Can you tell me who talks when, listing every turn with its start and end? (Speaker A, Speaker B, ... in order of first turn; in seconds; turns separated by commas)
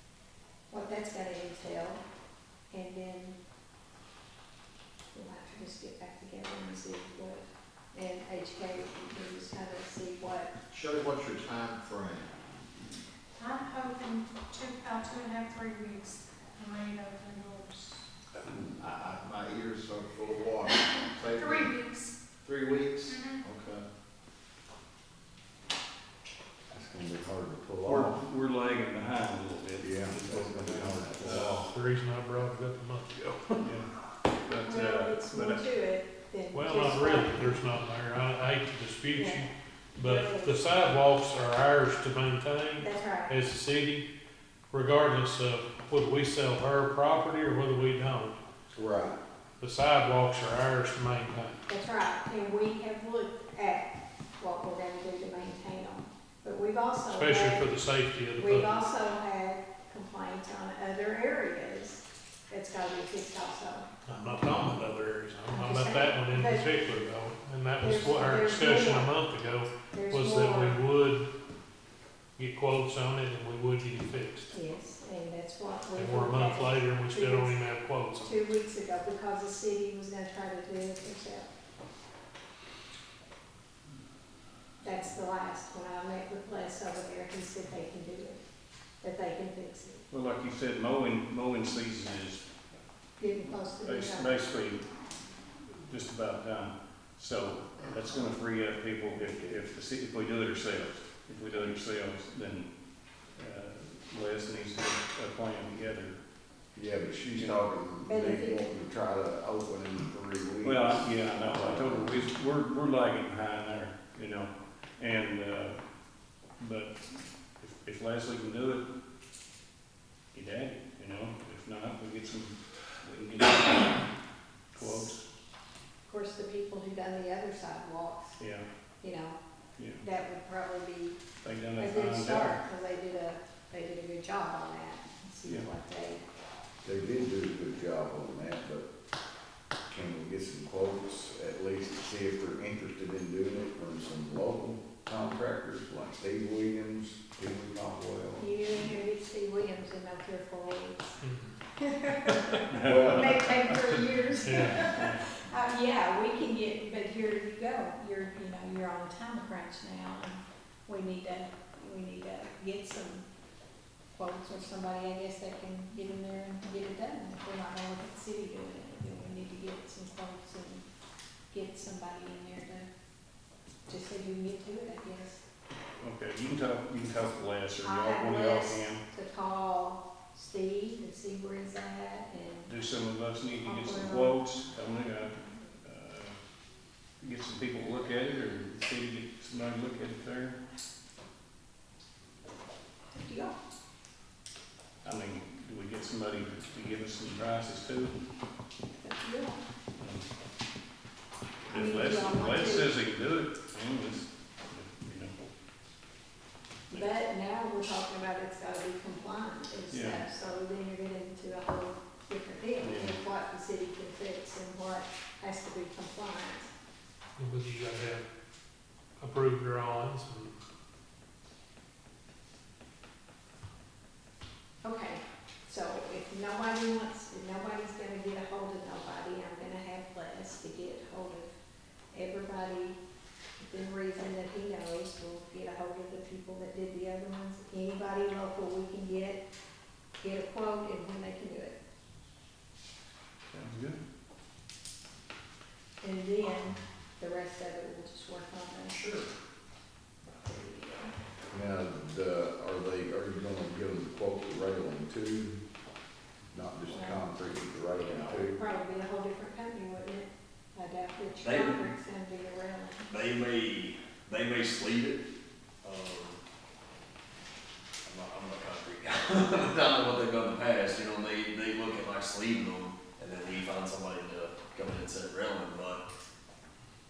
Speaker A: 0.7-2.0, Speaker A: 2.7-3.4, Speaker A: 5.1-10.5, Speaker B: 10.7-12.3, Speaker C: 13.4-18.0, Speaker B: 18.8-21.7, Speaker C: 21.0-22.1, Speaker B: 22.4-23.8, Speaker C: 23.1-23.4, Speaker D: 26.7-28.2, Speaker E: 27.8-31.7, Speaker D: 29.8-31.7, Speaker F: 31.5-33.6, Speaker E: 33.6-33.9, Speaker E: 34.5-35.6, Speaker A: 34.6-37.6, Speaker F: 36.5-44.1, Speaker A: 39.1-40.7, Speaker A: 42.8-43.4, Speaker F: 44.7-48.4, Speaker D: 48.7-49.1, Speaker F: 49.6-51.6, Speaker A: 51.7-57.7, Speaker F: 57.1-58.7, Speaker A: 58.4-63.9, Speaker F: 64.0-71.3, Speaker A: 65.5-66.7, Speaker A: 67.8-69.1, Speaker A: 69.9-70.8, Speaker F: 72.4-74.5, Speaker A: 74.5-77.6, Speaker F: 76.0-78.3, Speaker A: 78.2-81.5, Speaker A: 84.8-88.4, Speaker A: 89.0-90.0, Speaker E: 90.1-92.4, Speaker A: 93.2-94.4, Speaker E: 93.8-94.8, Speaker E: 95.7-102.7, Speaker E: 103.3-106.2, Speaker D: 106.7-112.3, Speaker E: 107.4-107.6, Speaker A: 108.1-108.6, Speaker E: 110.6-115.8, Speaker E: 116.6-118.8, Speaker E: 120.3-124.1, Speaker E: 124.7-125.2, Speaker A: 126.0-128.4, Speaker E: 128.4-128.6, Speaker A: 129.0-129.4, Speaker E: 129.8-130.0, Speaker A: 130.0-131.2, Speaker E: 131.4-132.6, Speaker A: 131.8-136.2, Speaker D: 136.8-138.8, Speaker D: 139.9-148.8, Speaker A: 148.4-151.2, Speaker F: 151.2-151.5, Speaker A: 151.8-163.2, Speaker F: 152.2-152.7, Speaker E: 152.7-153.4, Speaker D: 152.8-153.5, Speaker F: 154.4-155.0, Speaker A: 164.1-170.8, Speaker A: 171.5-172.9, Speaker A: 173.9-175.4, Speaker E: 176.0-179.0, Speaker A: 177.8-182.7, Speaker E: 182.7-186.3, Speaker A: 183.6-184.4, Speaker E: 187.2-190.6, Speaker A: 193.1-193.6, Speaker E: 195.0-198.1, Speaker A: 199.0-199.6, Speaker E: 200.0-200.2, Speaker E: 201.7-205.3, Speaker A: 201.7-202.9, Speaker A: 206.9-216.7, Speaker E: 209.9-210.2, Speaker E: 212.8-213.2, Speaker F: 217.4-218.2, Speaker F: 219.2-220.5, Speaker A: 224.8-231.5, Speaker A: 232.1-233.0, Speaker A: 233.6-239.4, Speaker A: 240.2-241.8, Speaker E: 243.5-244.0, Speaker A: 246.0-249.0, Speaker G: 249.0-249.2, Speaker A: 250.4-251.1, Speaker D: 251.5-255.6, Speaker D: 256.5-258.6, Speaker A: 256.9-257.3, Speaker A: 258.3-263.1, Speaker G: 261.4-261.8, Speaker G: 263.1-265.2, Speaker G: 265.8-266.4, Speaker G: 268.0-276.0